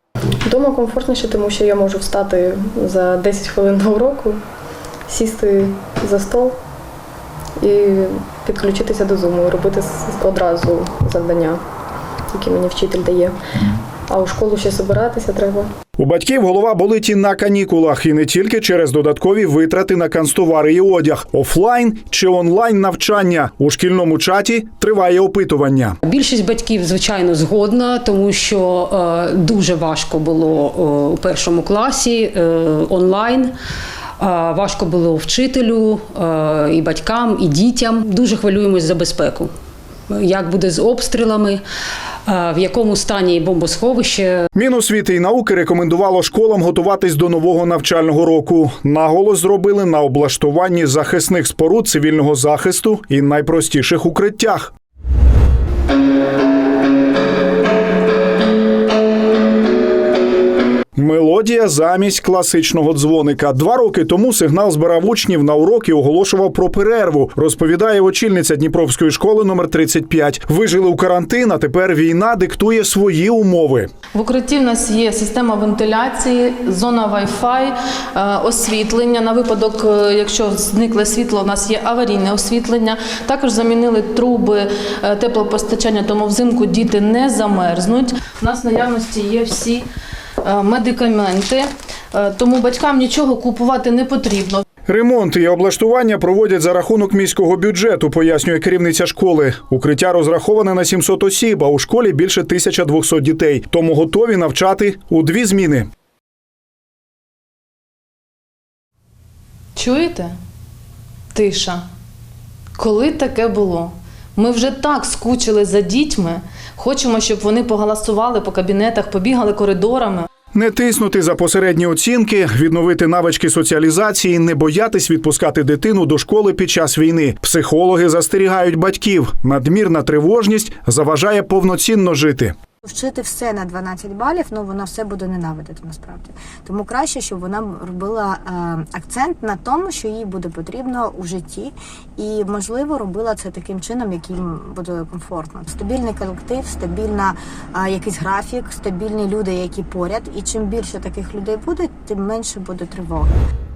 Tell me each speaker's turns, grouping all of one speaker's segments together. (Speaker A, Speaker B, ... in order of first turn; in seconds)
Speaker A: 0.5-4.4, 5.1-6.6, 7.6-11.6, 12.3-13.4, 14.1-15.7
Speaker B: 16.0-26.0, 44.5-54.7, 61.0-73.9, 94.9-105.9, 120.5-132.6
Speaker C: 26.1-33.5, 34.2-39.5, 40.1-41.6, 42.3-44.4
Speaker D: 74.2-89.8, 90.4-94.6, 109.8-110.3, 111.3-111.8, 112.8-120.3
Speaker E: 132.8-153.3